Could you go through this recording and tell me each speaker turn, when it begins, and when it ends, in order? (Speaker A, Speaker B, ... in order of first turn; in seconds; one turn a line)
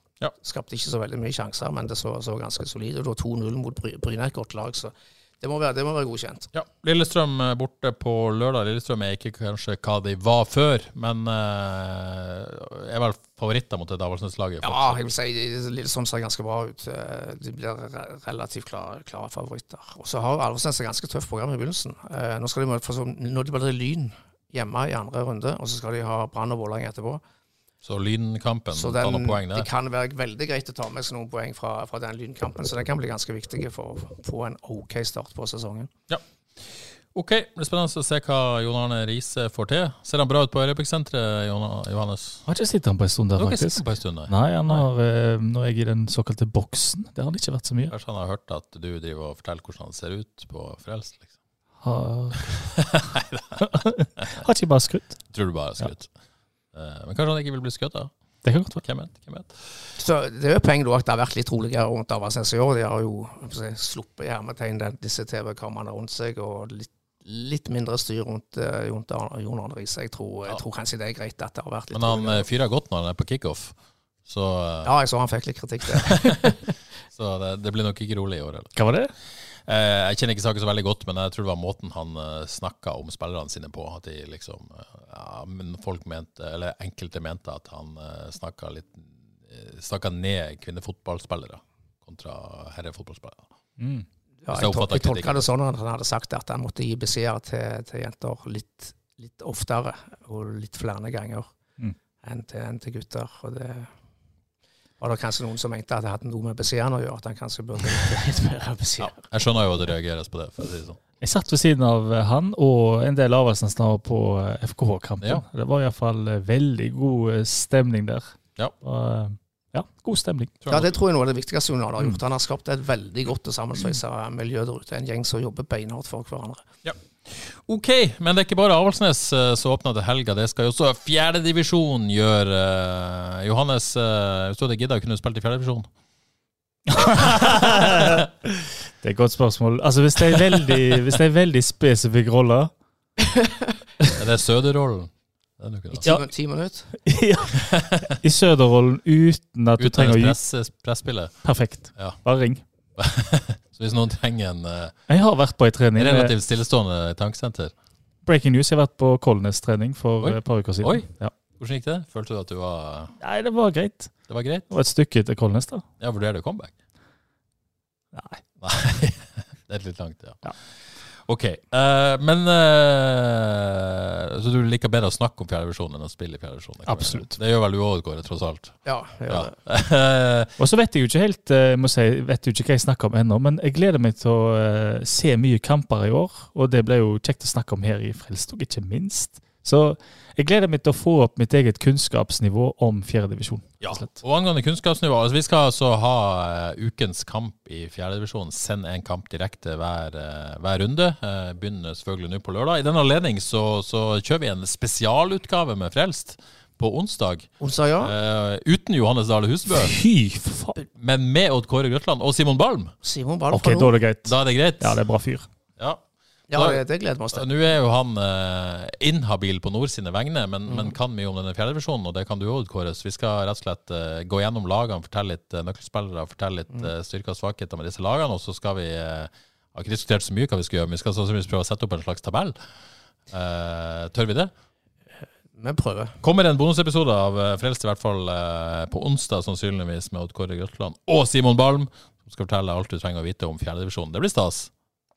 Speaker A: 0.4-6.5
Speaker B: 6.5-15.0
Speaker A: 14.6-27.2
Speaker B: 27.8-29.7
Speaker A: 28.7-35.9
Speaker B: 36.1-42.4
Speaker C: 42.5-47.9
Speaker B: 43.4-44.8
Speaker B: 47.9-51.3
Speaker C: 51.8-52.5
Speaker B: 52.6-53.6
Speaker C: 53.6-55.2
Speaker B: 55.3-56.1
Speaker B: 56.7-58.1
Speaker C: 58.4-58.8
Speaker B: 58.8-59.7
Speaker A: 60.0-72.5
Speaker B: 71.9-73.7
Speaker B: 74.2-74.9
Speaker A: 74.8-76.7
Speaker B: 75.9-76.5
Speaker B: 77.1-78.7
Speaker C: 78.8-79.1
Speaker B: 79.6-93.5
Speaker C: 93.8-94.0
Speaker A: 94.4-101.5
Speaker B: 94.5-95.4
Speaker A: 102.2-103.9
Speaker A: 105.0-109.2
Speaker B: 109.0-111.0
Speaker C: 111.2-120.5
Speaker B: 120.6-120.9
Speaker A: 120.7-126.7
Speaker B: 126.8-135.9
Speaker C: 136.9-138.3
Speaker B: 137.1-138.2
Speaker C: 139.0-142.7
Speaker B: 140.5-140.9
Speaker B: 144.1-146.1
Speaker A: 145.9-146.9
Speaker C: 147.0-150.4
Speaker B: 147.5-148.1
Speaker B: 149.8-151.3
Speaker C: 151.4-152.6
Speaker B: 153.0-155.0
Speaker C: 155.1-156.3
Speaker B: 155.9-157.7
Speaker C: 158.2-161.3
Speaker B: 160.2-163.1
Speaker C: 163.2-164.1
Speaker B: 164.3-164.7
Speaker C: 164.7-165.8
Speaker B: 166.0-166.7
Speaker C: 168.1-168.4
Speaker B: 168.6-170.5
Speaker B: 171.1-180.5
Speaker C: 176.8-177.3
Speaker A: 178.8-179.5
Speaker C: 180.6-194.2
Speaker B: 193.8-209.9
Speaker A: 207.6-208.1
Speaker C: 209.8-210.8
Speaker B: 210.9-212.9
Speaker A: 213.0-213.9
Speaker C: 213.5-215.5
Speaker B: 214.2-215.0
Speaker B: 215.8-232.6
Speaker A: 216.5-217.5
Speaker B: 233.3-234.5
Speaker A: 235.5-236.2
Speaker B: 236.2-244.7